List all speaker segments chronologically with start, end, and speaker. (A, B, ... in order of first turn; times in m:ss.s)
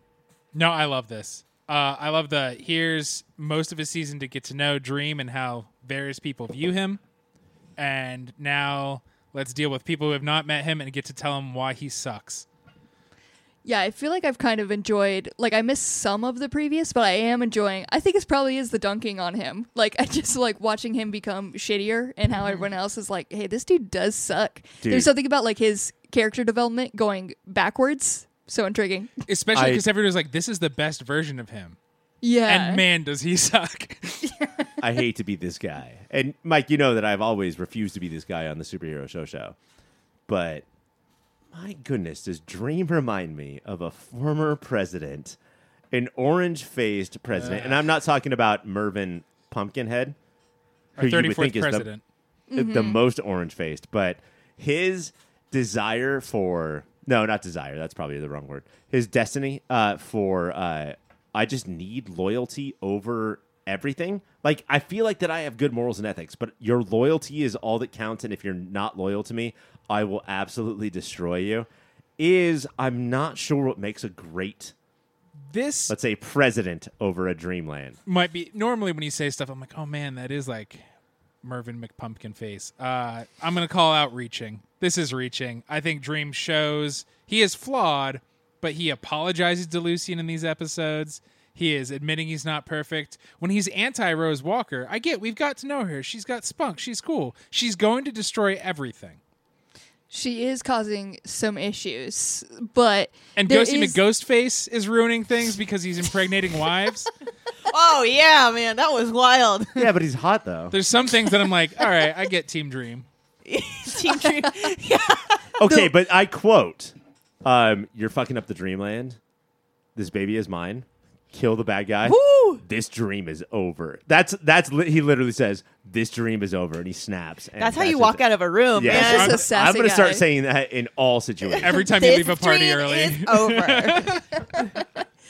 0:00.5-0:07.0 A
0:07.8-0:12.4 A
0:13.6-0:29.2 B
0:24.8-0:25.1 C
0:29.3-0:31.8 A
0:29.5-0:29.8 C
0:32.2-0:32.8 B
0:32.5-0:34.3 A
0:34.8-0:39.6 C
0:40.3-0:40.6 C
0:41.5-0:45.4 C
0:45.9-0:50.2 C
0:47.3-0:47.8 A
0:51.0-0:52.0 A
0:51.0-0:51.8 C
0:52.5-0:53.0 B
0:52.5-1:14.7 C
1:15.5-1:15.9 A
1:15.9-1:18.0 C
1:18.0-1:20.8 A
1:21.4-1:39.2 A
1:40.1-1:44.0 B
1:43.4-1:47.1 A
1:47.7-1:49.9 D
1:49.8-1:50.8 C
1:50.7-1:53.0 A
1:53.4-1:55.4 D
1:55.6-1:59.2 C
1:59.9-2:11.9 C
2:02.3-2:02.6 B
2:07.6-2:09.4 D
2:08.8-2:10.2 B
2:08.9-2:09.3 A
2:11.5-2:14.6 D
2:11.6-2:14.2 A